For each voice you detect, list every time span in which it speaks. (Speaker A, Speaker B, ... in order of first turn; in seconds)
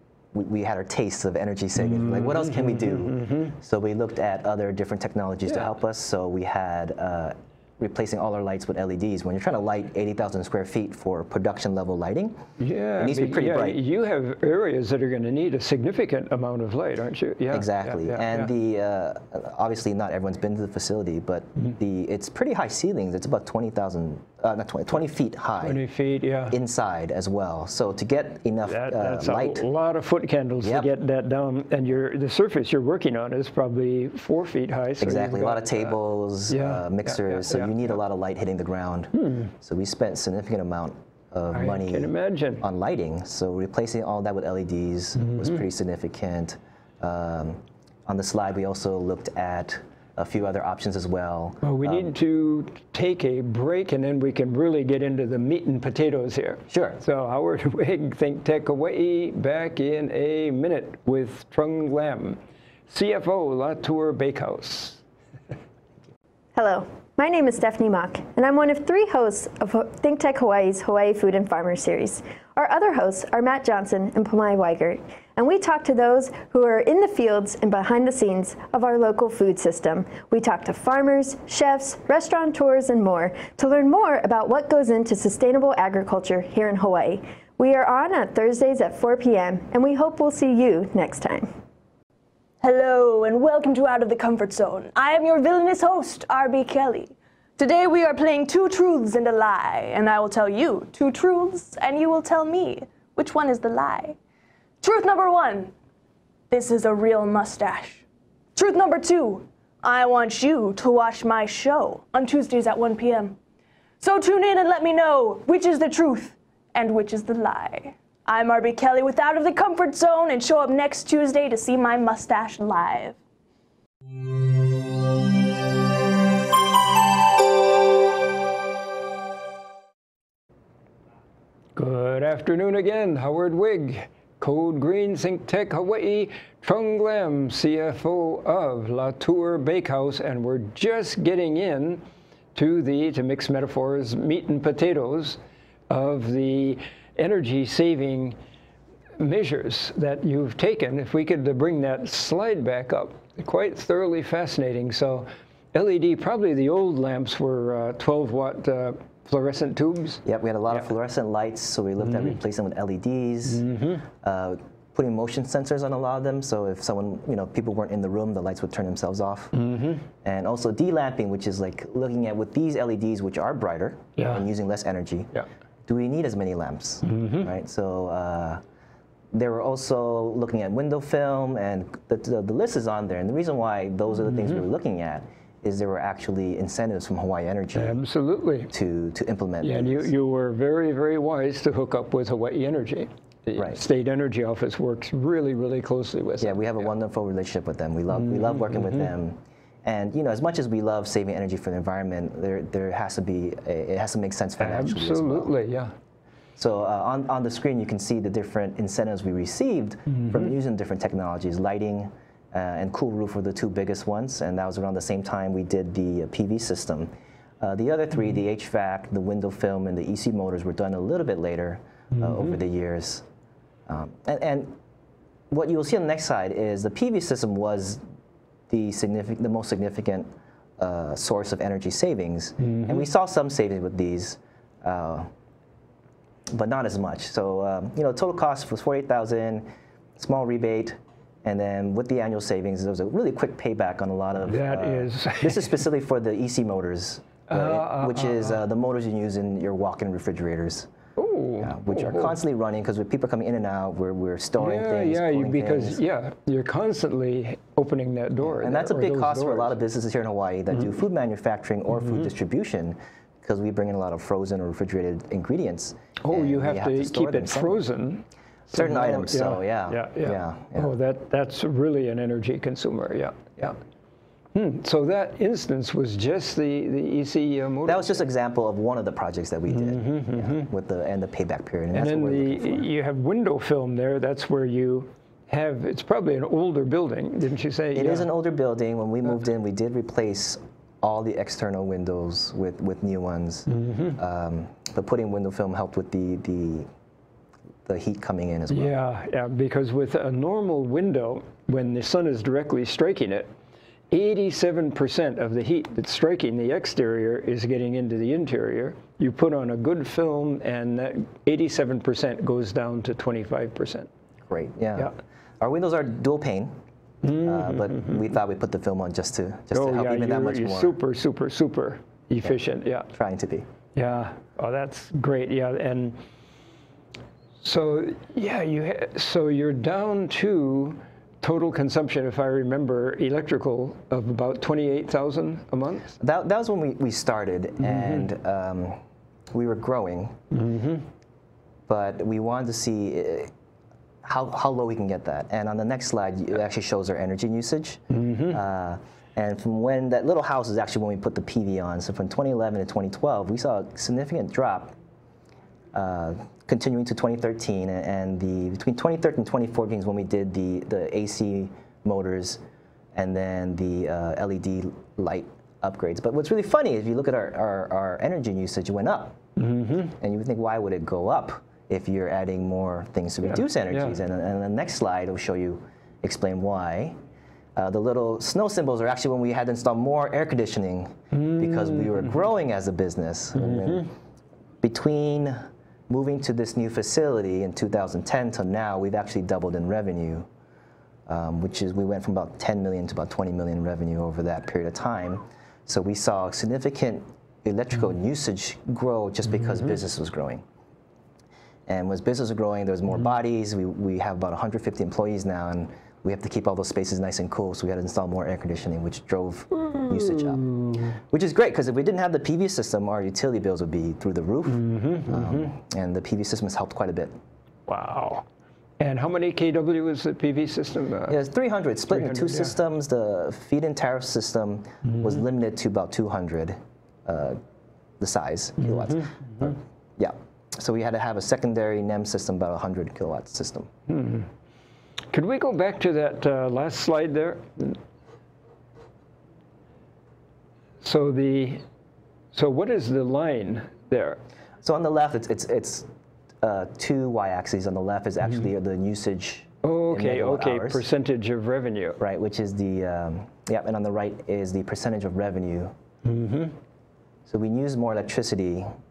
Speaker A: 0.3-12.4, 13.0-13.8, 17.5-25.8, 26.5-29.6, 30.6-30.9, 35.0-52.1, 56.7-57.0, 160.2-163.7, 164.2-169.5, 170.2-175.3, 175.9-178.6, 179.3-188.0, 188.7-190.1, 196.4-205.5, 206.6-223.2, 223.9-224.8, 225.5-228.0, 228.7-230.3, 230.8-235.3, 236.5-250.9, 251.6-256.0, 258.4-267.8, 268.7-270.9, 277.9-282.9, 287.9-296.9, 297.9-298.9, 314.5-316.7, 317.3-321.0, 323.1-323.6, 336.2-339.0, 339.5-340.4, 341.9-343.5, 344.2-354.9, 355.9-362.6, 363.1-369.4, 370.1-377.2, 377.8-384.1, 384.8-385.6, 386.1-390.5, 391.3-400.6, 401.9-410.6, 411.3-417.3, 421.3-427.6, 428.2-433.9, 444.8-446.1, 446.6-451.1, 452.2-455.9, 457.4-458.9
Speaker B: 1.9-3.5, 12.6-18.5, 25.6-26.6, 28.6-35.9, 36.5-37.7, 41.5-42.6, 51.6-65.0, 131.8-142.0, 142.5-148.4, 149.2-160.2, 163.5-164.0, 169.5-170.0, 174.2-174.4, 177.0-177.5, 187.7-188.7, 189.6-196.6, 198.1-199.1, 204.6-205.9, 232.6-233.1, 244.4-245.8, 247.5-248.6, 251.2-252.3, 254.6-259.8, 266.2-273.8, 274.5-278.2, 279.7-280.7, 281.9-288.3, 293.7-294.2, 298.7-303.5, 304.1-314.1, 317.2-318.1, 319.7-323.1, 323.9-326.2, 327.6-336.2, 340.5-341.1, 348.1-348.6, 369.6-370.1, 381.3-382.2, 383.6-384.1, 409.9-411.2, 414.7-415.7, 417.9-418.4, 419.0-421.4, 422.1-422.8, 429.0-429.4, 434.1-434.5, 435.3-438.0, 441.0-441.8, 442.5-444.4, 449.8-452.2, 456.2-456.7
Speaker C: 66.5-91.5
Speaker D: 92.6-104.2, 104.8-105.7, 106.5-113.4, 114.0-123.2